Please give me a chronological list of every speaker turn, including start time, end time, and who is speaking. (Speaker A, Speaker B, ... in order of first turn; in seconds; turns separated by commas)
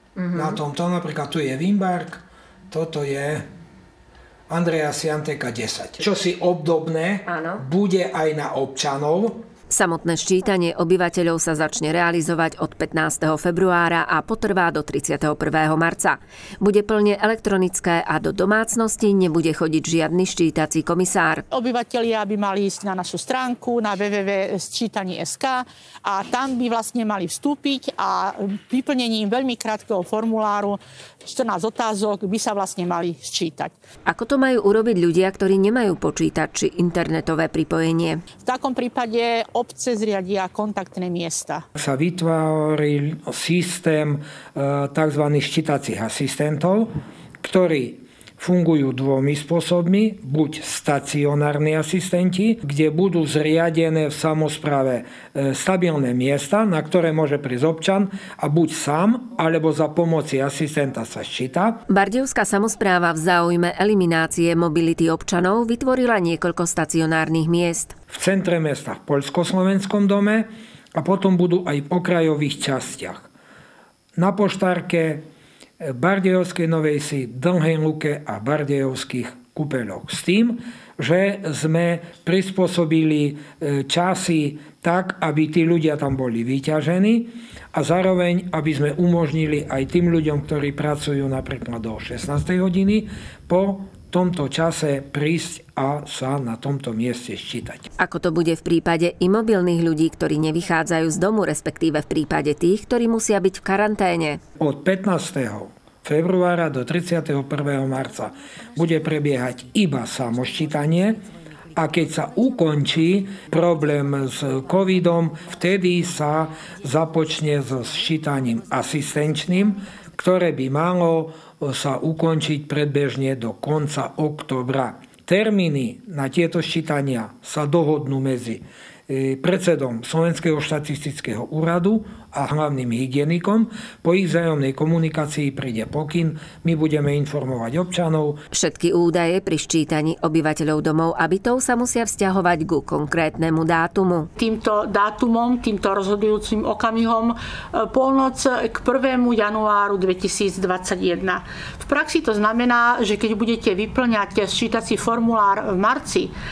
Speaker A: 0.2-0.6, Speaker B: 0.3-3.5, Speaker B: 4.5-9.4, Speaker A: 7.2-7.6, Speaker A: 9.7-21.4, Speaker C: 21.5-33.8, Speaker A: 34.1-38.2, Speaker C: 38.4-41.6, Speaker B: 41.8-61.8, Speaker A: 61.9-67.9, Speaker B: 68.1-73.3, Speaker B: 74.2-75.2, Speaker B: 75.8-97.9, Speaker A: 98.0-104.4, Speaker B: 104.6-138.4, Speaker A: 138.5-144.3, Speaker C: 144.4-156.3